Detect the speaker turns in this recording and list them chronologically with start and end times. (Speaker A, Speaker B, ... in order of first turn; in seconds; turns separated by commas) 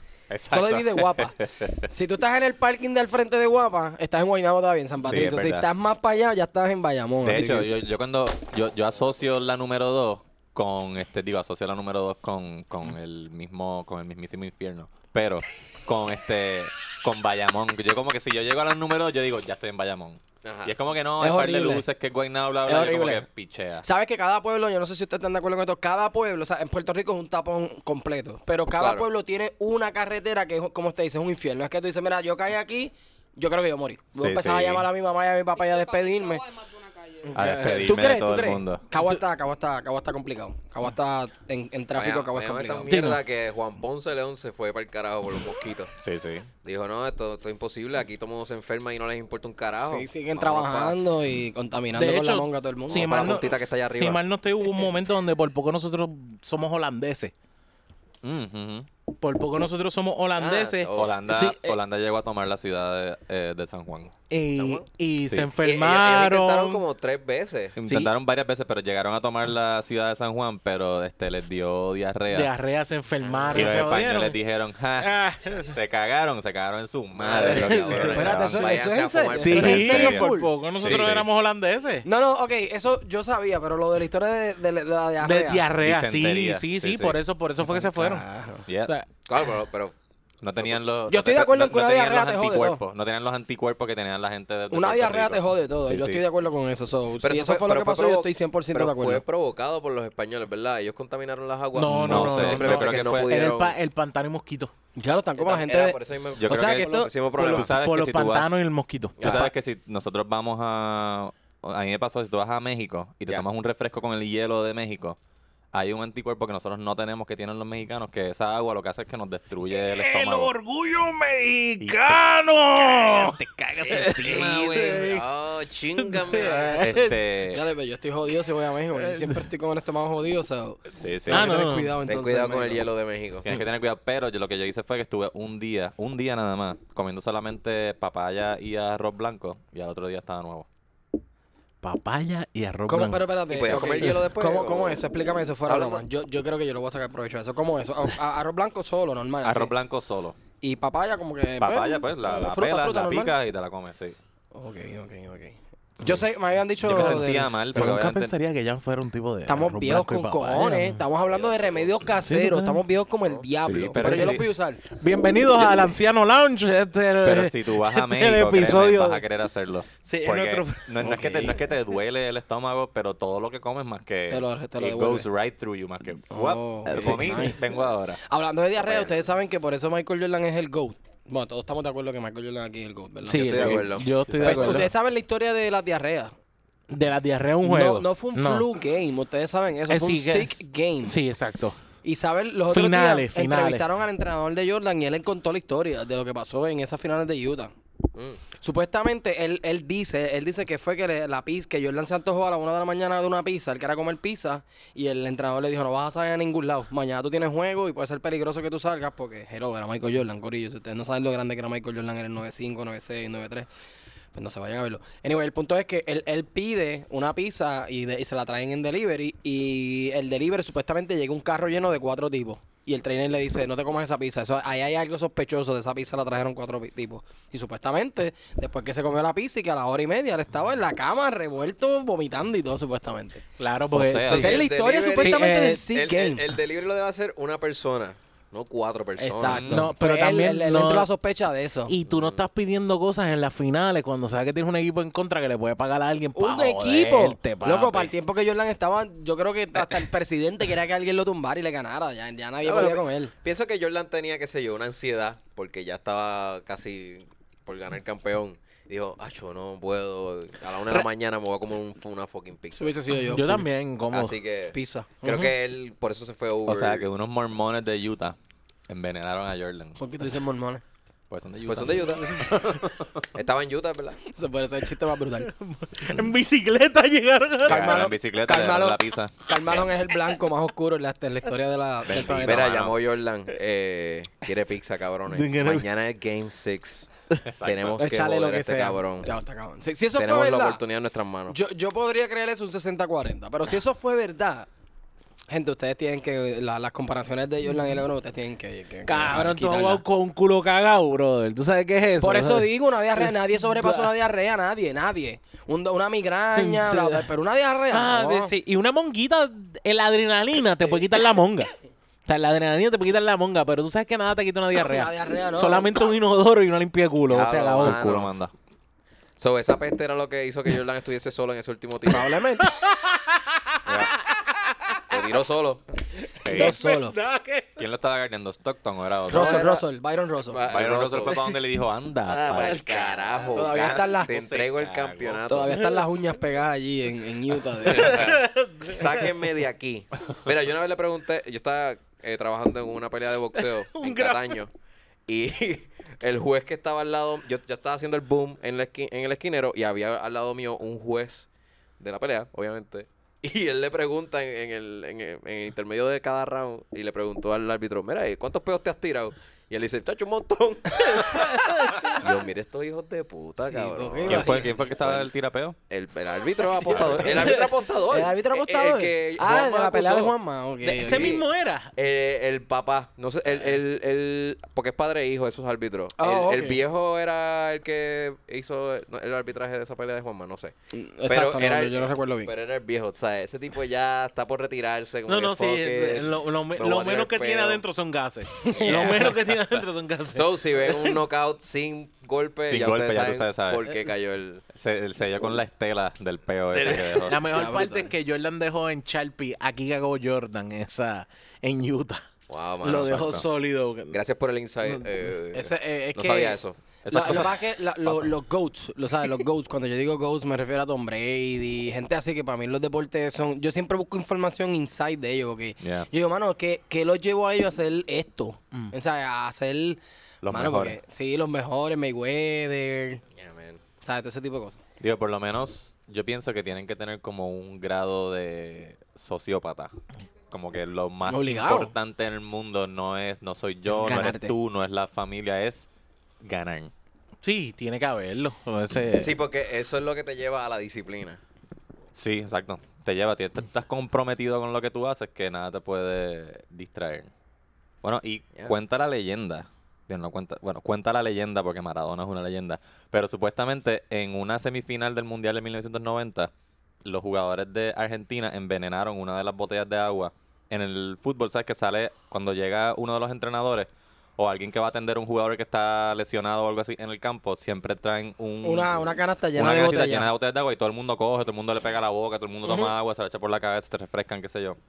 Speaker A: 0.3-1.8, Speaker B: 0.5-7.7, Speaker A: 5.0-5.7, Speaker A: 7.2-23.9, Speaker C: 20.4-20.8, Speaker B: 21.2-21.9, Speaker B: 22.6-23.3, Speaker B: 23.8-36.4, Speaker C: 28.8-29.1, Speaker A: 34.1-34.9, Speaker D: 35.5-37.6, Speaker E: 37.3-37.9, Speaker A: 37.3-38.8, Speaker B: 37.6-43.0, Speaker C: 42.0-45.9, Speaker E: 42.9-43.2, Speaker A: 46.0-46.5, Speaker C: 46.6-51.0, Speaker B: 49.8-53.4, Speaker E: 51.9-57.3, Speaker C: 52.9-54.2, Speaker A: 58.2-58.9, Speaker E: 59.2-61.8, Speaker C: 60.4-61.2, Speaker A: 61.0-64.1, Speaker E: 64.3-66.8, Speaker C: 64.6-64.9, Speaker C: 65.6-67.8, Speaker A: 67.8-72.5, Speaker E: 67.9-68.1, Speaker E: 72.3-74.4, Speaker C: 73.2-73.9, Speaker A: 73.5-78.8, Speaker E: 75.0-75.7, Speaker C: 77.2-80.0, Speaker E: 77.3-78.3, Speaker B: 78.1-80.5, Speaker E: 79.4-82.1, Speaker A: 79.5-81.3, Speaker B: 82.0-85.7, Speaker E: 85.2-88.2, Speaker A: 85.8-87.2, Speaker B: 87.7-88.7, Speaker A: 88.7-88.9, Speaker C: 89.3-90.0, Speaker A: 90.4-96.2, Speaker B: 91.1-92.8, Speaker B: 94.7-99.2, Speaker C: 97.2-103.8, Speaker E: 101.8-104.7, Speaker A: 101.9-103.4, Speaker B: 105.0-107.1, Speaker C: 105.4-107.7, Speaker A: 106.4-108.6, Speaker E: 107.3-109.4, Speaker C: 109.2-109.5, Speaker A: 109.2-115.2, Speaker A: 115.7-120.5, Speaker E: 119.7-125.3, Speaker A: 121.8-122.1, Speaker C: 123.9-127.0, Speaker E: 126.0-127.2, Speaker A: 126.8-127.6, Speaker B: 127.5-132.9, Speaker E: 129.0-129.4, Speaker A: 130.9-131.5, Speaker E: 131.3-131.9, Speaker C: 132.1-133.5, Speaker A: 133.4-140.7, Speaker E: 141.8-143.3, Speaker B: 142.9-149.7, Speaker C: 143.5-145.0, Speaker E: 143.8-144.2, Speaker C: 145.7-146.0, Speaker A: 149.4-150.4, Speaker B: 150.6-153.3, Speaker A: 151.6-154.2, Speaker B: 154.5-157.5, Speaker E: 156.8-161.1, Speaker A: 156.8-158.3, Speaker B: 159.5-164.8, Speaker C: 161.3-161.9, Speaker E: 162.2-162.8, Speaker A: 163.6-164.4, Speaker E: 163.9-169.2, Speaker A: 167.2-178.2, Speaker E: 170.0-171.3, Speaker B: 171.0-171.6, Speaker B: 174.3-175.3, Speaker B: 176.3-177.6, Speaker E: 176.9-177.6, Speaker B: 178.2-186.3, Speaker E: 183.3-184.9, Speaker C: 183.4-184.8, Speaker E: 186.9-188.7, Speaker B: 187.6-191.2, Speaker E: 189.9-191.8, Speaker B: 192.0-197.7, Speaker E: 192.7-193.9, Speaker B: 198.6-213.7, Speaker B: 214.3-233.4, Speaker E: 233.6-234.6, Speaker A: 233.9-234.6, Speaker C: 234.3-239.8, Speaker B: 234.3-236.5, Speaker E: 235.2-235.8, Speaker B: 239.2-242.0, Speaker A: 239.4-239.9, Speaker E: 239.7-241.1, Speaker E: 241.9-248.1, Speaker C: 242.1-242.4, Speaker B: 246.3-253.3, Speaker C: 252.7-262.9, Speaker B: 262.8-263.7, Speaker E: 263.1-264.4, Speaker C: 264.1-267.1, Speaker B: 264.7-265.5, Speaker A: 266.7-268.4, Speaker A: 268.9-270.0, Speaker B: 270.0-270.8, Speaker A: 271.3-273.2, Speaker C: 271.6-274.2, Speaker B: 274.3-275.5, Speaker E: 275.4-278.1, Speaker A: 277.6-279.9, Speaker B: 277.7-282.7, Speaker A: 282.1-283.0, Speaker C: 282.4-287.1, Speaker E: 285.3-285.9, Speaker A: 287.4-288.0, Speaker C: 287.6-289.3, Speaker B: 288.0-290.8, Speaker C: 290.2-291.6, Speaker B: 291.5-294.7, Speaker B: 295.5-300.0, Speaker E: 299.1-304.1, Speaker B: 302.2-308.5, Speaker E: 306.6-307.3, Speaker E: 307.9-311.7, Speaker E: 312.3-318.0, Speaker B: 314.9-315.9, Speaker C: 317.3-318.3, Speaker A: 317.8-318.5, Speaker C: 319.4-322.4, Speaker B: 322.1-322.7, Speaker E: 322.6-325.2, Speaker C: 325.1-325.8, Speaker E: 326.3-327.8, Speaker A: 326.4-326.8, Speaker B: 326.5-327.1, Speaker A: 327.8-329.7, Speaker C: 329.3-329.8, Speaker B: 329.3-330.6, Speaker C: 330.5-331.5, Speaker A: 330.7-335.4, Speaker C: 332.3-335.8, Speaker B: 333.5-334.3, Speaker B: 335.5-338.3, Speaker E: 337.8-339.4, Speaker C: 337.9-344.7, Speaker E: 343.5-344.6, Speaker C: 345.3-351.5, Speaker C: 352.0-365.3, Speaker E: 361.3-362.1, Speaker B: 363.6-364.7, Speaker A: 364.3-365.8, Speaker C: 365.9-370.3, Speaker B: 366.6-371.4, Speaker A: 366.9-367.3, Speaker E: 370.8-371.9, Speaker C: 371.0-371.4, Speaker C: 372.0-380.7, Speaker B: 376.2-376.8, Speaker B: 380.9-382.5, Speaker C: 381.3-387.8, Speaker E: 385.3-391.2, Speaker C: 388.8-389.4, Speaker A: 388.8-389.6, Speaker C: 390.3-394.6, Speaker A: 392.7-393.9, Speaker A: 394.7-397.4, Speaker C: 396.7-397.3, Speaker E: 397.2-402.3, Speaker B: 397.5-398.1, Speaker C: 402.5-403.4, Speaker E: 402.8-404.2, Speaker A: 403.2-403.4, Speaker C: 404.1-406.8, Speaker B: 405.5-423.2, Speaker A: 407.1-408.3, Speaker A: 415.8-416.1, Speaker A: 420.4-421.0, Speaker C: 423.4-423.8, Speaker B: 424.0-424.8, Speaker A: 425.0-429.9, Speaker A: 430.5-435.9, Speaker B: 431.3-431.9, Speaker B: 433.9-434.6, Speaker A: 436.4-436.9, Speaker E: 437.4-439.4, Speaker C: 439.1-441.4, Speaker A: 442.1-447.3, Speaker A: 448.0-456.5, Speaker A: 457.1-474.8, Speaker B: 468.6-470.3, Speaker B: 472.7-472.9